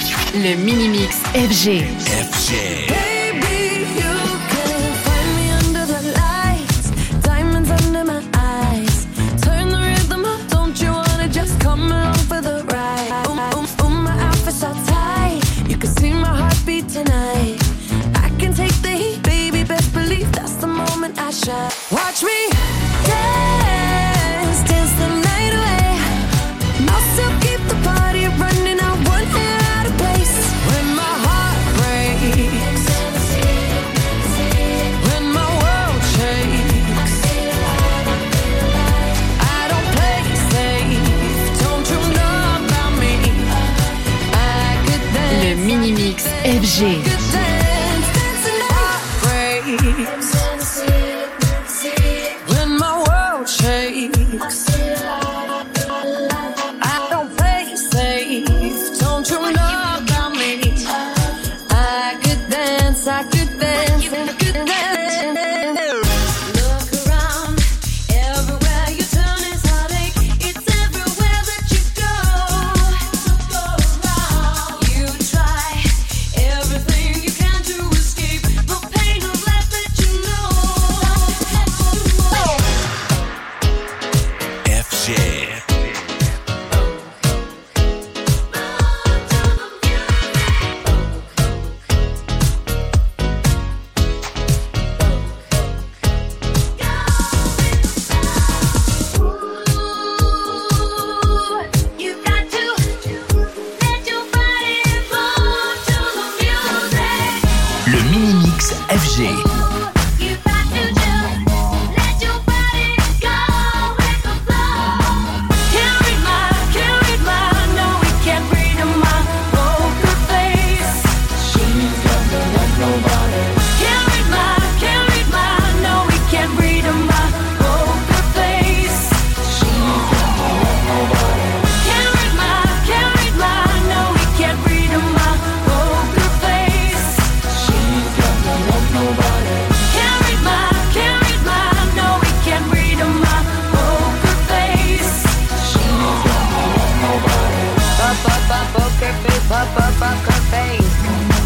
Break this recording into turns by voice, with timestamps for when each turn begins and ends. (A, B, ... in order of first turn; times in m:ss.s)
0:00.3-0:02.0 A
0:02.0-0:03.0 B
0:02.7-0:38.4 C
0:39.0-1:22.7 C
0:45.3-0:47.2 A
1:24.6-1:25.7 B
1:29.0-1:30.9 C
1:37.0-1:38.7 C
1:40.0-1:47.7 C
1:47.8-1:49.5 B
1:49.4-2:27.9 C
2:28.0-2:31.0 D